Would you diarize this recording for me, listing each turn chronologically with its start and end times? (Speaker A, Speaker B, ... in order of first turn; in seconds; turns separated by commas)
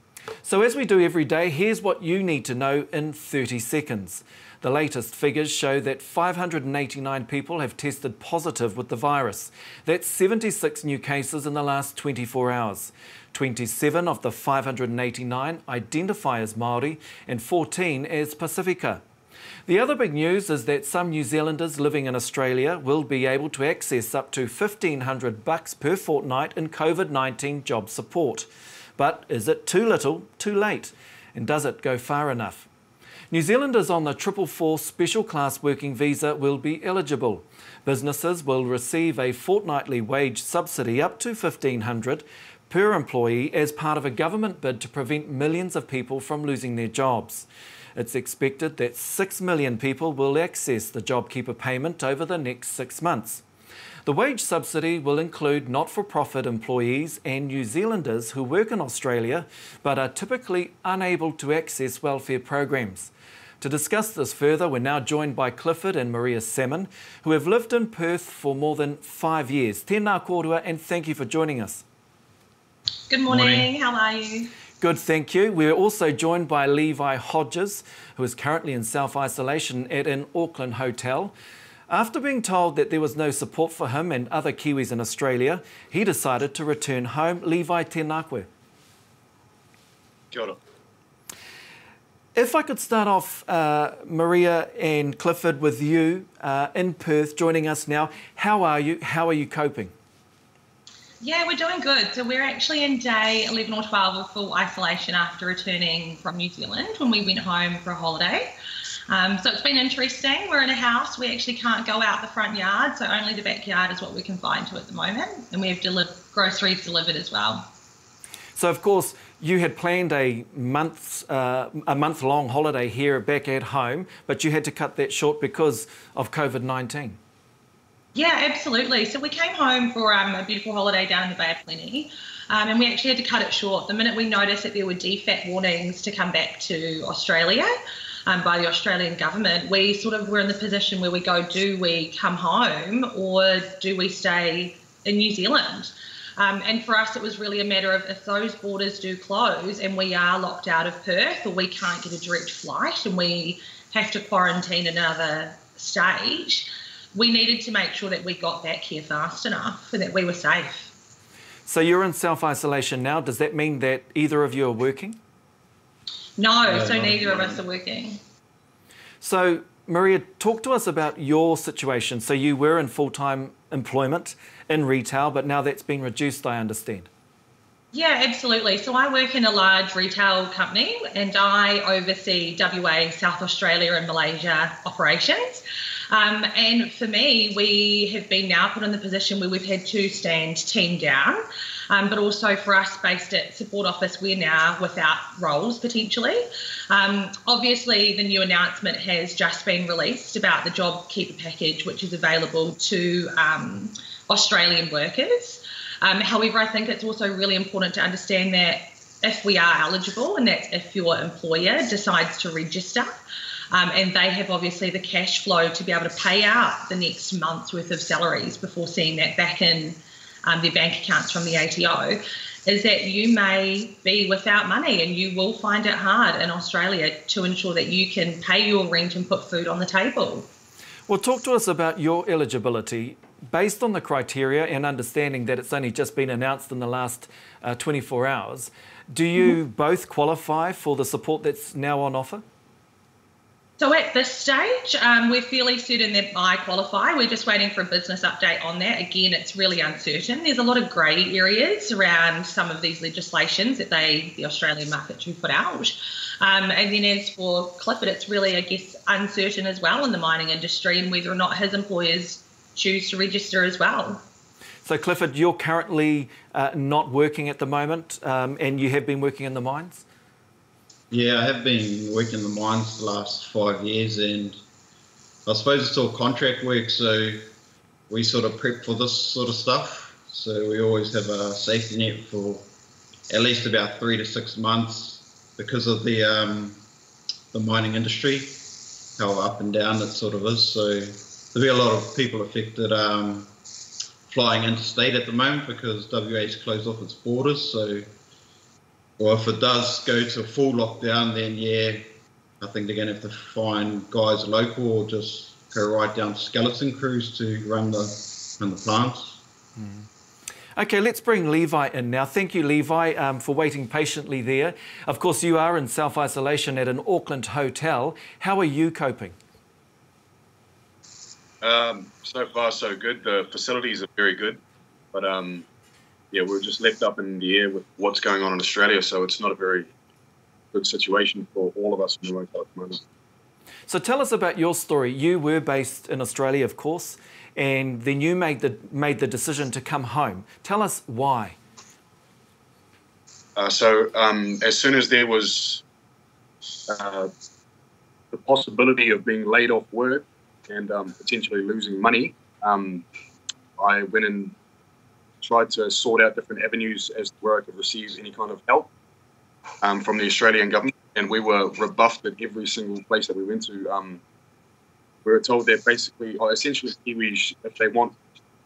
Speaker A: 0.4-19.0, Speaker A: 19.7-32.7, Speaker A: 33.3-53.4, Speaker A: 54.0-71.8, Speaker B: 73.1-74.5, Speaker A: 73.3-73.6, Speaker A: 74.8-81.3, Speaker A: 81.9-88.5, Speaker C: 90.3-90.6, Speaker A: 92.3-99.9, Speaker B: 101.2-108.5, Speaker B: 109.1-117.7, Speaker A: 118.5-127.2, Speaker B: 128.1-137.7, Speaker B: 138.3-160.9, Speaker A: 161.7-165.2, Speaker B: 166.4-168.2, Speaker D: 166.6-167.6, Speaker A: 169.2-177.1, Speaker B: 177.9-230.5, Speaker A: 231.1-242.4, Speaker B: 243.8-264.2, Speaker A: 264.8-270.1, Speaker D: 271.1-274.6, Speaker D: 275.4-277.5, Speaker D: 278.1-282.7, Speaker D: 283.3-286.8, Speaker D: 287.5-293.5, Speaker D: 294.3-298.1, Speaker D: 299.2-309.4, Speaker A: 309.8-310.1, Speaker A: 310.8-319.4, Speaker C: 321.6-324.6, Speaker C: 325.1-325.6, Speaker C: 326.3-329.9, Speaker C: 330.7-333.0, Speaker A: 333.9-341.6, Speaker C: 343.6-345.8, Speaker C: 346.9-347.3, Speaker C: 348.3-353.0, Speaker C: 353.8-354.5, Speaker C: 355.4-358.9, Speaker C: 359.8-364.2, Speaker C: 365.2-368.1